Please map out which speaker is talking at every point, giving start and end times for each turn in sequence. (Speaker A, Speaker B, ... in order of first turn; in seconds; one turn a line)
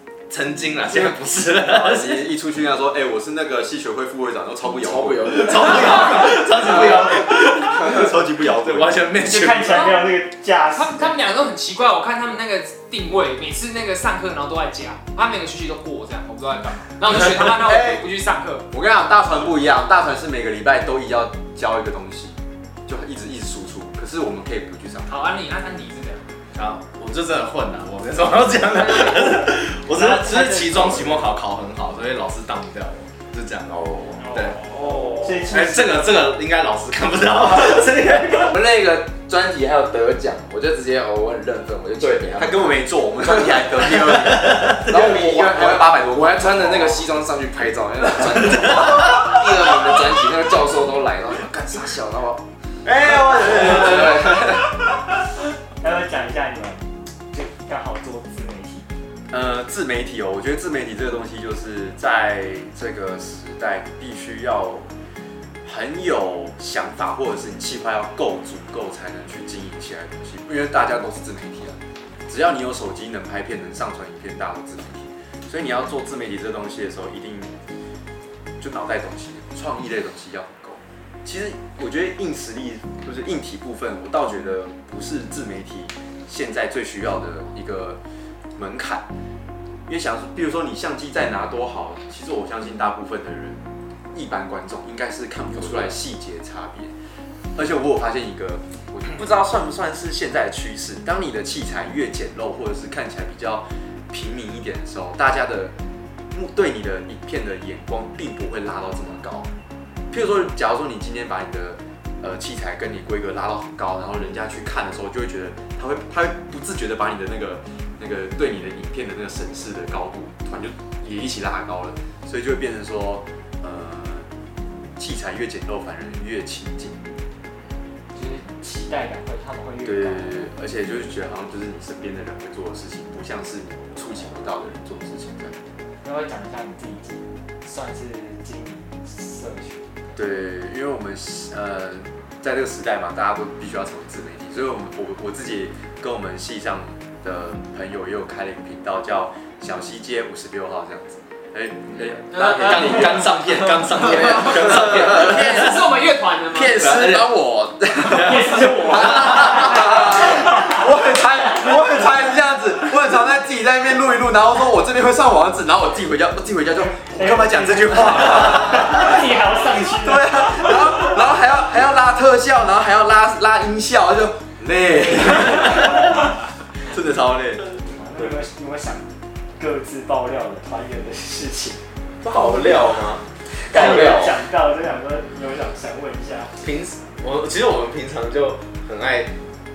Speaker A: 0.3-2.3
Speaker B: 0.9-9.1
Speaker C: 4.8-7.0
Speaker A: 5.3-9.9
Speaker D: 9.2-11.1
Speaker E: 9.7-10.0
Speaker E: 10.7-18.6
Speaker B: 17.5-18.1
Speaker B: 18.7-25.4
Speaker E: 25.1-26.3
Speaker A: 26.5-33.7
Speaker D: 28.8-31.3
Speaker C: 33.6-34.3
Speaker E: 34.2-35.5
Speaker A: 34.3-34.6
Speaker D: 34.9-36.1
Speaker A: 35.4-38.5
Speaker C: 38.3-44.2
Speaker B: 42.0-47.0
Speaker A: 44.4-44.8
Speaker C: 44.8-54.7
Speaker B: 52.8-54.4
Speaker A: 53.4-54.1
Speaker D: 55.8-58.9
Speaker B: 59.3-64.9
Speaker B: 65.6-77.6
Speaker B: 78.6-88.0
Speaker B: 88.5-89.0
Speaker B: 89.9-93.6
Speaker B: 94.1-96.9
Speaker C: 95.5-96.0
Speaker B: 97.5-105.7
Speaker B: 106.3-109.5
Speaker B: 110.1-124.3
Speaker B: 125.0-127.1
Speaker D: 128.1-130.5
Speaker B: 129.8-135.6
Speaker D: 136.0-140.1
Speaker B: 140.2-155.8
Speaker E: 152.3-156.9
Speaker A: 152.4-155.8
Speaker C: 154.4-155.1
Speaker B: 156.5-176.2
Speaker A: 156.8-157.3
Speaker A: 158.1-159.8
Speaker D: 158.1-160.8
Speaker D: 166.8-170.7
Speaker E: 175.8-176.1
Speaker B: 176.8-177.7
Speaker D: 177.8-181.8
Speaker A: 182.2-183.2
Speaker B: 182.3-183.2
Speaker C: 183.7-184.4
Speaker D: 183.7-186.5
Speaker A: 183.8-184.1
Speaker A: 186.6-189.3